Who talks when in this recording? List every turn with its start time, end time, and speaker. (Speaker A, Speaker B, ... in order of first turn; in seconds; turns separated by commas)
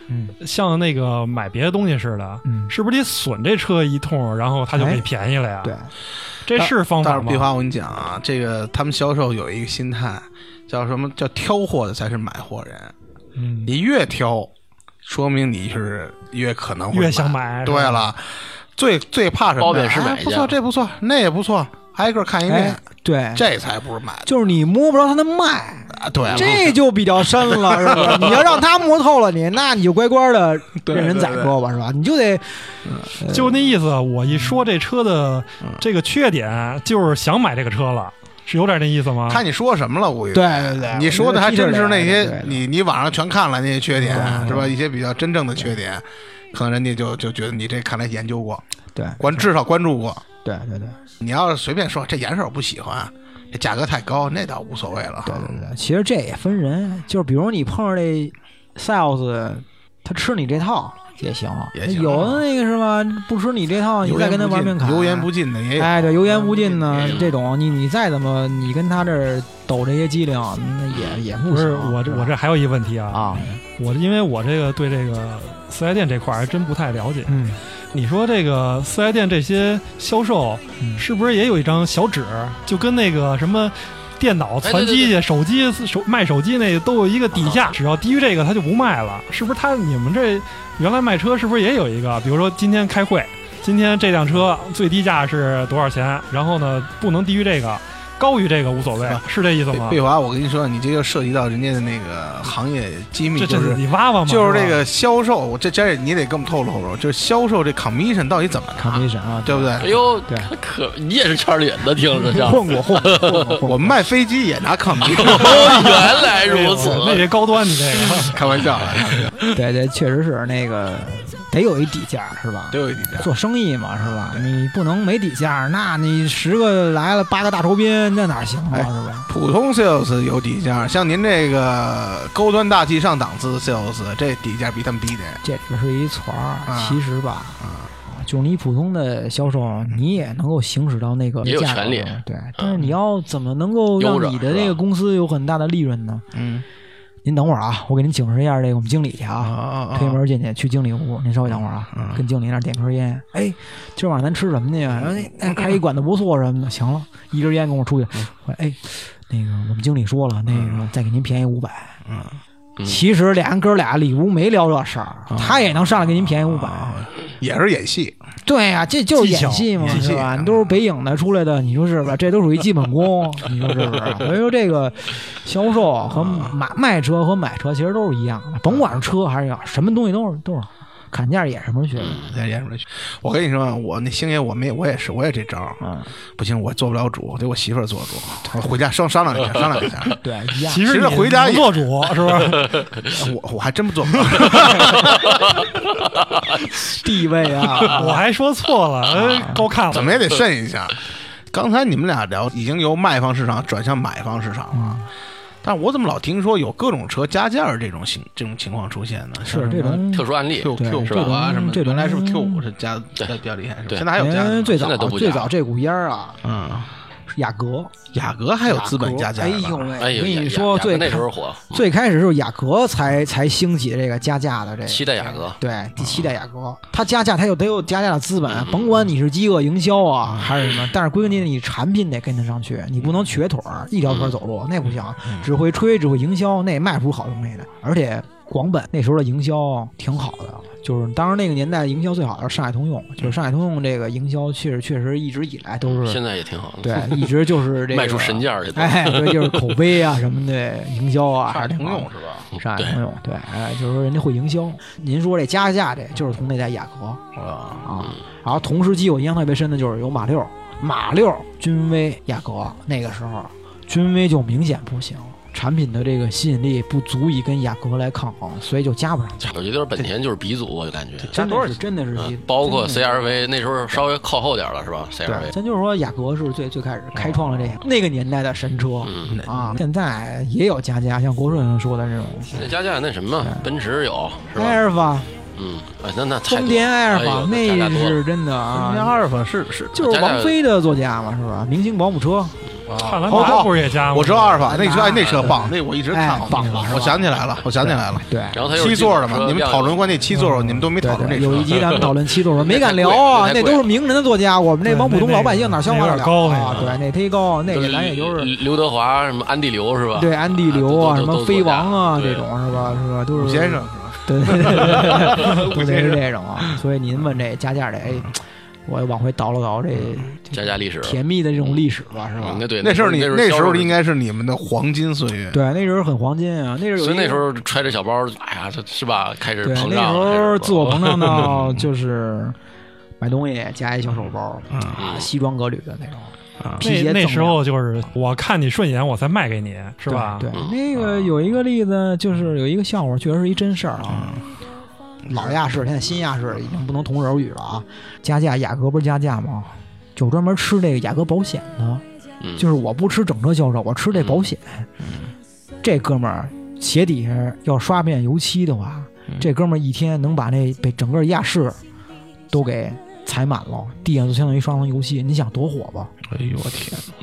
Speaker A: 0.1-0.3, Speaker B: 0.4-5.7, Speaker A: 2.4-2.7, Speaker A: 4.7-5.0, Speaker A: 5.6-5.9, Speaker B: 6.5-7.5, Speaker C: 6.5-12.9, Speaker C: 13.7-14.5, Speaker C: 15.0-22.8, Speaker B: 16.9-18.1, Speaker D: 19.6-20.5, Speaker A: 22.5-23.5, Speaker C: 23.4-24.3, Speaker A: 24.2-33.6, Speaker C: 25.9-26.7, Speaker D: 26.3-26.5, Speaker C: 27.5-28.3, Speaker C: 30.8-31.5, Speaker B: 33.3-39.4, Speaker A: 34.3-34.6, Speaker C: 39.3-48.6, Speaker A: 40.3-42.6, Speaker A: 44.0-44.7, Speaker A: 48.9-49.5, Speaker C: 49.2-50.2, Speaker A: 50.4-51.0, Speaker C: 51.2-55.7, Speaker A: 55.2-72.3, Speaker C: 61.7-62.4, Speaker C: 64.0-67.3, Speaker D: 70.9-71.2, Speaker B: 71.5-77.4, Speaker A: 73.1-73.5, Speaker A: 77.3-77.6, Speaker B: 77.9-100.0, Speaker A: 80.8-81.0, Speaker D: 84.6-85.2, Speaker D: 87.3-87.8, Speaker C: 99.0-109.9, Speaker B: 103.3-104.8, Speaker A: 108.8-110.5, Speaker D: 109.8-113.5, Speaker A: 112.1-114.0, Speaker C: 113.6-116.1, Speaker D: 115.1-117.3, Speaker B: 115.3-118.4, Speaker C: 118.3-119.4, Speaker A: 119.5-129.3, Speaker C: 122.7-123.3, Speaker C: 124.0-124.5, Speaker C: 128.7-135.4, Speaker A: 135.4-146.2, Speaker C: 136.7-137.0, Speaker C: 137.6-137.9, Speaker D: 141.4-142.8, Speaker D: 144.0-144.8, Speaker C: 146.3-146.6, Speaker A: 147.2-162.0, Speaker C: 149.4-150.2, Speaker C: 151.9-152.2, Speaker C: 160.5-160.8, Speaker C: 162.1-162.4, Speaker A: 162.8-167.1, Speaker C: 165.3-168.2, Speaker A: 168.4-182.2, Speaker B: 169.1-170.1, Speaker C: 169.8-170.7, Speaker C: 176.1-176.5, Speaker D: 182.0-182.3, Speaker C: 182.1-185.8, Speaker A: 185.8-186.1, Speaker C: 186.3-190.2, Speaker A: 190.2-190.9, Speaker B: 190.7-192.9, Speaker C: 190.8-191.9, Speaker C: 193.1-195.3, Speaker D: 195.3-195.6, Speaker A: 196.9-198.2, Speaker B: 197.9-200.2, Speaker A: 199.2-199.6, Speaker C: 199.9-201.0, Speaker C: 201.5-205.0, Speaker A: 204.7-205.1, Speaker C: 205.6-214.8, Speaker A: 209.4-212.6, Speaker D: 210.1-211.4, Speaker A: 214.1-216.4, Speaker D: 214.8-215.5, Speaker C: 216.4-216.9, Speaker A: 217.3-217.9, Speaker C: 218.1-219.9, Speaker A: 218.7-246.2, Speaker D: 220.0-221.8, Speaker D: 224.9-225.6, Speaker C: 226.0-226.3, Speaker D: 228.5-229.0, Speaker D: 245.8-249.8, Speaker A: 246.8-257.2, Speaker C: 251.5-252.5, Speaker C: 257.3-257.9, Speaker A: 257.8-269.5, Speaker D: 269.5-275.5, Speaker A: 271.3-273.1, Speaker A: 275.2-282.6, Speaker C: 277.2-277.7, Speaker D: 279.0-279.4, Speaker C: 279.3-279.8, Speaker D: 282.5-284.8, Speaker A: 284.5-285.3, Speaker D: 285.5-288.2, Speaker A: 286.4-289.1, Speaker C: 288.7-290.0, Speaker A: 289.9-292.6, Speaker D: 289.9-290.6, Speaker C: 292.9-302.1, Speaker B: 293.0-294.7, Speaker A: 293.3-293.6, Speaker A: 294.6-298.7, Speaker D: 295.2-295.5, Speaker D: 298.5-300.2, Speaker A: 300.3-308.5, Speaker D: 301.5-303.9, Speaker B: 304.8-306.9, Speaker D: 307.7-312.5, Speaker A: 310.1-322.6, Speaker C: 313.3-316.7, Speaker D: 320.5-321.2, Speaker D: 322.4-324.0, Speaker C: 322.8-325.6, Speaker A: 325.5-327.5, Speaker D: 327.0-331.5, Speaker A: 329.6-332.6, Speaker C: 331.3-331.8, Speaker A: 333.2-337.6, Speaker C: 334.7-335.0, Speaker D: 335.0-335.3, Speaker B: 336.8-340.5, Speaker A: 340.1-344.4, Speaker C: 344.1-344.4, Speaker C: 345.2-345.6, Speaker A: 345.3-352.0, Speaker D: 352.4-352.6, Speaker A: 352.6-354.9, Speaker D: 354.1-354.4, Speaker C: 355.0-355.3, Speaker A: 355.8-361.8, Speaker A: 362.5-366.1, Speaker C: 366.3-367.1